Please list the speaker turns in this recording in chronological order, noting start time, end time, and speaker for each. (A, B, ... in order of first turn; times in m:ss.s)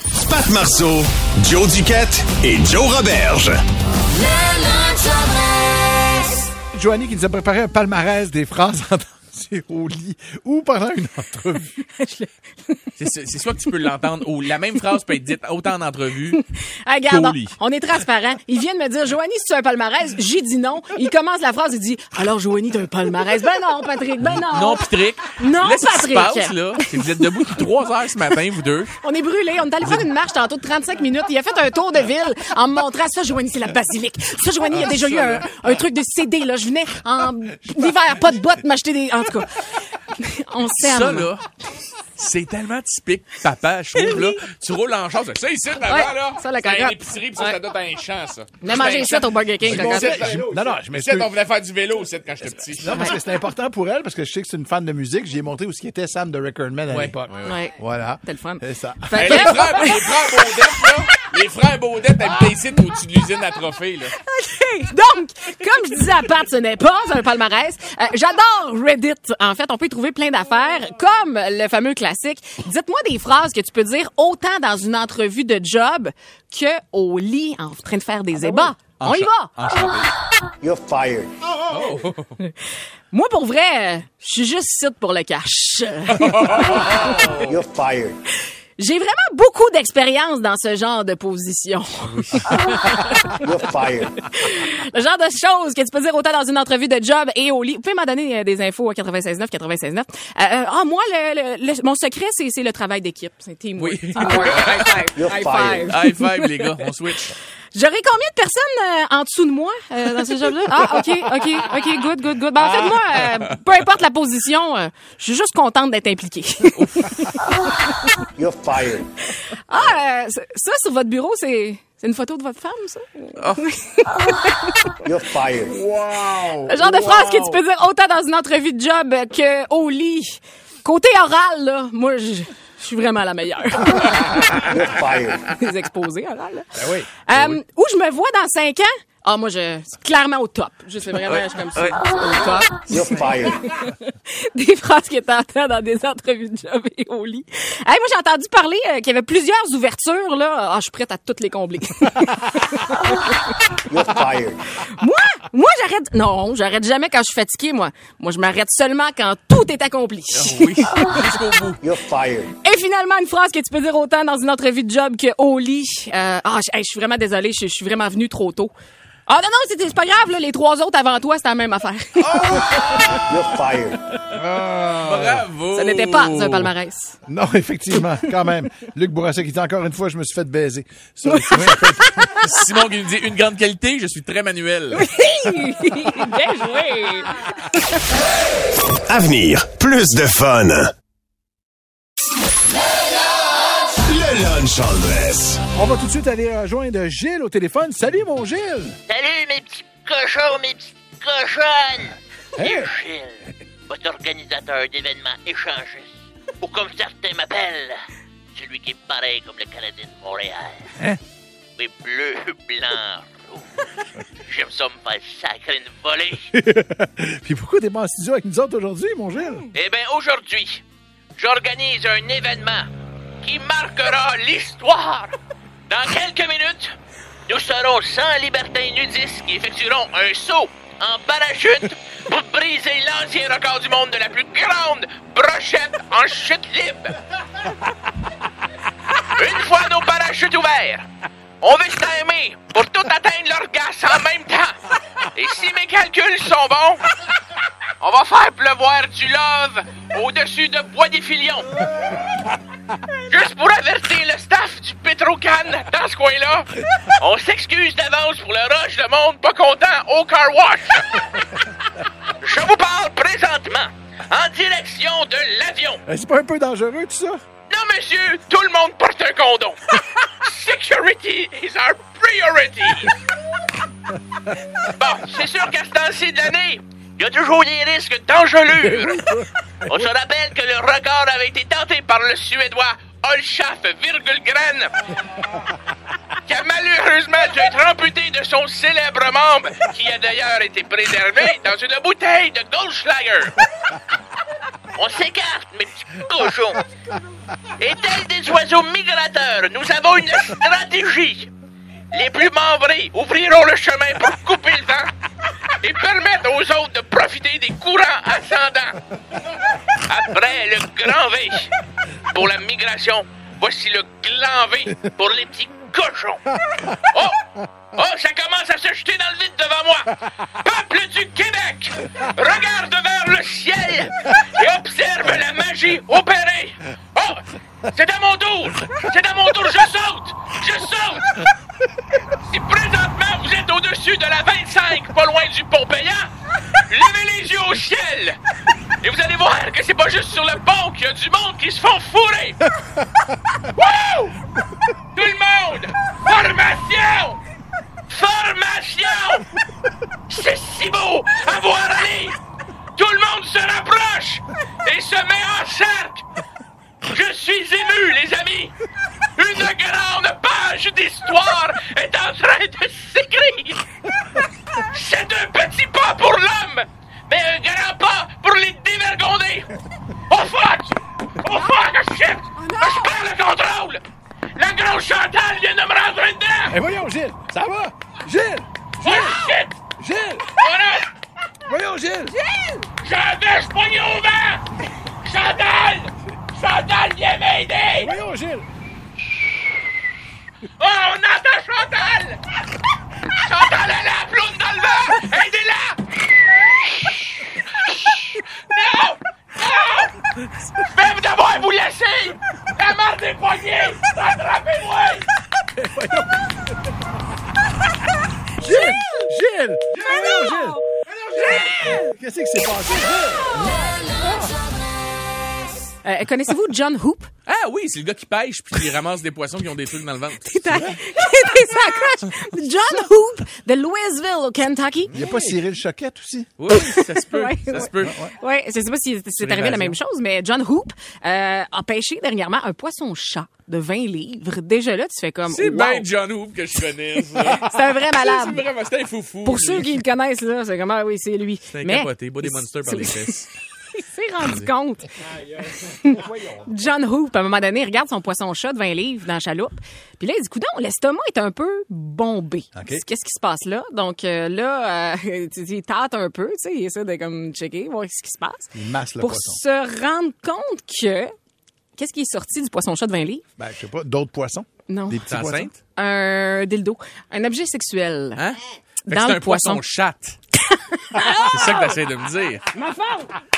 0:00.2-0:03.6 A
0:06.7-0:11.8 B
0:12.0-0:12.3 C
0:13.0-0:16.4 D
0:16.4-0:27.0 C
0:17.1-0:17.6 D
0:24.3-0:29.0 D
0:29.0-0:41.3 C
0:34.7-0:35.4 D
0:40.7-0:41.4 D
0:42.2-0:53.0 D
0:44.0-0:44.4 C
0:45.8-0:47.6 C
0:48.6-0:50.4 C
0:49.6-0:51.3 B
0:52.6-0:59.8 B
0:56.9-0:57.6 D
0:57.4-1:00.0 C
0:59.2-1:04.1 D
1:04.3-1:19.5 C
1:19.0-1:20.1 D
1:20.6-1:21.3 E
1:21.7-1:22.3 D
1:23.1-1:27.4 C
1:26.2-1:27.5 D
1:27.4-1:28.2 E
1:28.8-1:33.4 C
1:32.0-1:33.0 D
1:33.4-1:34.1 E
1:34.2-1:46.7 C
1:43.8-1:45.0 D
1:45.1-1:45.9 E
1:45.8-1:47.3 D
1:47.7-1:58.2 C
1:52.6-1:53.3 D
1:56.7-1:57.2 D
1:58.4-1:59.0 E
1:59.4-2:04.9 C
2:05.0-2:05.7 E
2:05.7-2:07.6 B
2:06.7-2:14.8 C
2:14.7-2:15.4 E
2:15.4-2:16.7 C
2:16.8-2:17.1 B
2:17.2-2:33.7 C
2:22.9-2:23.5 E
2:33.9-2:34.6 E
2:34.8-2:41.2 C
2:40.3-2:41.9 D
2:41.8-2:42.5 E
2:42.6-2:48.7 C
2:49.3-2:53.1 C
2:52.4-2:53.0 D
2:53.3-2:54.0 E
2:54.3-2:55.4 B
2:55.0-2:56.7 D
2:55.7-2:57.2 C
2:57.3-3:02.4 B
3:02.3-3:05.1 D
3:04.9-3:07.7 C
3:09.1-3:10.9 A
3:14.0-3:15.6 A
3:15.7-3:19.0 B
3:19.1-3:28.0 F
3:22.6-3:22.9 B
3:28.5-3:30.9 F
3:31.8-3:33.8 F
3:34.5-3:36.5 F
3:36.4-3:39.7 B
3:39.7-3:40.8 F
3:41.4-3:42.9 F
3:43.4-3:45.3 F
3:45.9-3:46.9 F
3:47.5-3:57.1 F
3:59.4-4:01.1 F
4:01.6-4:07.0 F
4:08.0-4:11.7 F
4:13.3-4:21.2 F
4:22.4-4:26.0 F
4:26.1-4:27.4 B
4:27.7-4:33.1 F
4:34.9-4:44.9 F
4:38.9-4:39.4 B
4:46.5-4:53.6 F
4:54.9-4:56.8 F
4:57.8-5:01.5 F
5:02.1-5:05.1 F
5:05.8-5:09.0 F
5:10.0-5:11.7 F
5:12.3-5:31.3 F
5:32.4-5:36.3 F
5:36.9-5:38.4 F
5:39.0-5:42.6 F
5:43.7-5:44.4 F
5:45.1-5:47.4 F
5:48.1-5:49.5 F
5:50.3-5:52.4 F
5:53.0-5:56.2 F
5:57.0-5:58.7 F
5:59.4-6:03.8 F
6:04.8-6:09.7 F
6:10.3-6:14.0 F
6:12.6-6:13.1 C
6:14.6-6:16.8 F
6:16.7-6:20.5 B
6:19.0-6:19.8 F
6:20.5-6:21.1 F
6:21.6-6:22.4 B
6:23.0-6:24.6 F
6:25.2-6:28.1 F
6:28.0-6:28.6 B
6:30.8-6:32.4 F
6:33.4-6:36.0 F
6:37.8-6:40.2 F
6:40.9-6:45.2 F
6:45.8-6:46.3 B
6:48.6-6:50.8 B
6:51.4-6:54.5 B
6:56.0-6:57.3 C
6:57.4-7:00.8 D
7:00.4-7:05.1 C
7:05.1-7:06.5 B
7:06.6-7:08.2 D
7:06.7-7:16.0 C
7:08.0-7:08.3 B
7:09.4-7:10.0 D
7:15.5-7:19.9 D
7:17.6-7:18.6 C
7:19.4-7:23.3 C
7:21.7-7:23.5 D
7:23.9-7:25.1 C
7:25.9-7:41.3 C
7:32.7-7:33.0 B
7:38.7-7:39.6 B
7:42.0-7:43.4 C
7:43.6-7:45.7 B
7:44.9-7:45.2 C
7:45.3-7:45.7 D
7:45.9-7:48.4 C
7:48.4-7:50.4 D
7:49.1-7:49.8 C
7:50.7-7:51.7 C
7:51.4-7:52.7 D
7:52.8-7:53.2 C